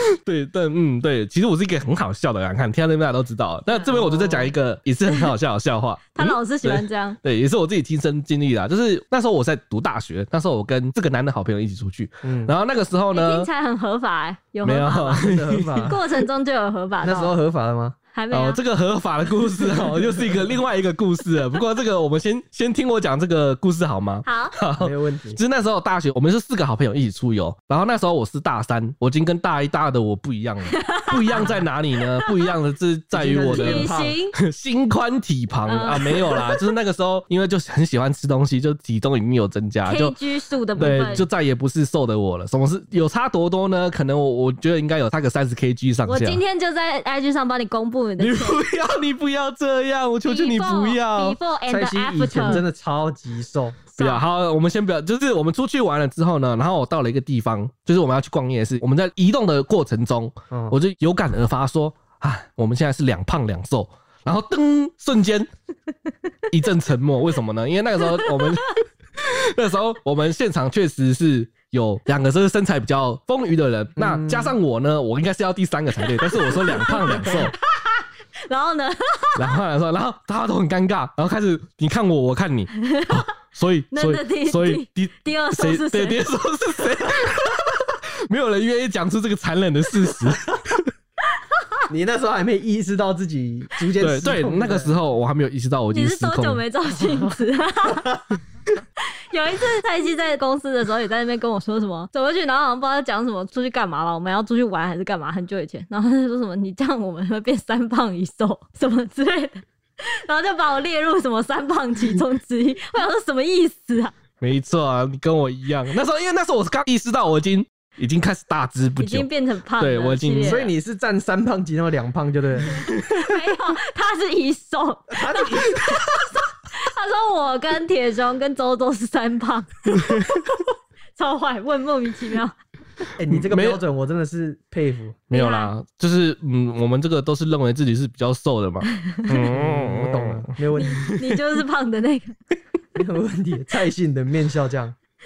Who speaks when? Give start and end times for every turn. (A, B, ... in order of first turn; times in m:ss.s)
0:00.2-0:13.5 A
0:03.7-0:04.5 B
0:06.1-0:07.2 B
0:12.2-0:12.5 C
0:13.1-0:15.3 B
0:14.6-0:16.0 A
0:15.2-0:16.0 C
0:15.8-0:17.3 B
0:17.0-0:18.0 C
0:18.1-0:18.6 B
0:18.3-0:40.2 A
0:24.2-0:24.5 B
0:24.8-0:25.4 C
0:30.7-0:31.6 B
0:32.1-0:32.5 B
0:33.1-0:34.2 C
0:33.5-0:34.4 B
0:35.6-0:36.7 B
0:39.8-0:41.2 B
0:40.7-0:46.4 A
0:46.0-0:48.6 B
0:48.2-0:51.4 A
0:50.2-0:52.6 B
0:51.7-0:53.9 C
0:53.9-0:54.2 B
0:54.0-1:05.5 A
1:00.5-1:00.8 C
1:06.5-1:17.5 A
1:08.2-1:08.5 B
1:14.0-1:14.5 C
1:16.1-1:19.5 B
1:19.4-1:30.9 A
1:22.9-1:23.2 B
1:23.9-1:26.2 B
1:31.9-1:35.0 C
1:34.0-1:36.6 A
1:35.9-1:38.2 B
1:39.3-1:54.1 B
1:54.4-2:00.6 A
1:59.0-2:00.7 B
2:00.4-2:02.7 C
2:02.9-2:10.6 B
2:05.1-2:06.0 C
2:11.1-2:12.5 B
2:13.2-2:15.3 C
2:13.3-2:13.8 A
2:15.3-2:21.4 A
2:15.3-2:15.7 B
2:19.2-2:19.4 B
2:19.4-2:21.1 C
2:20.8-2:22.3 B
2:22.9-2:24.9 C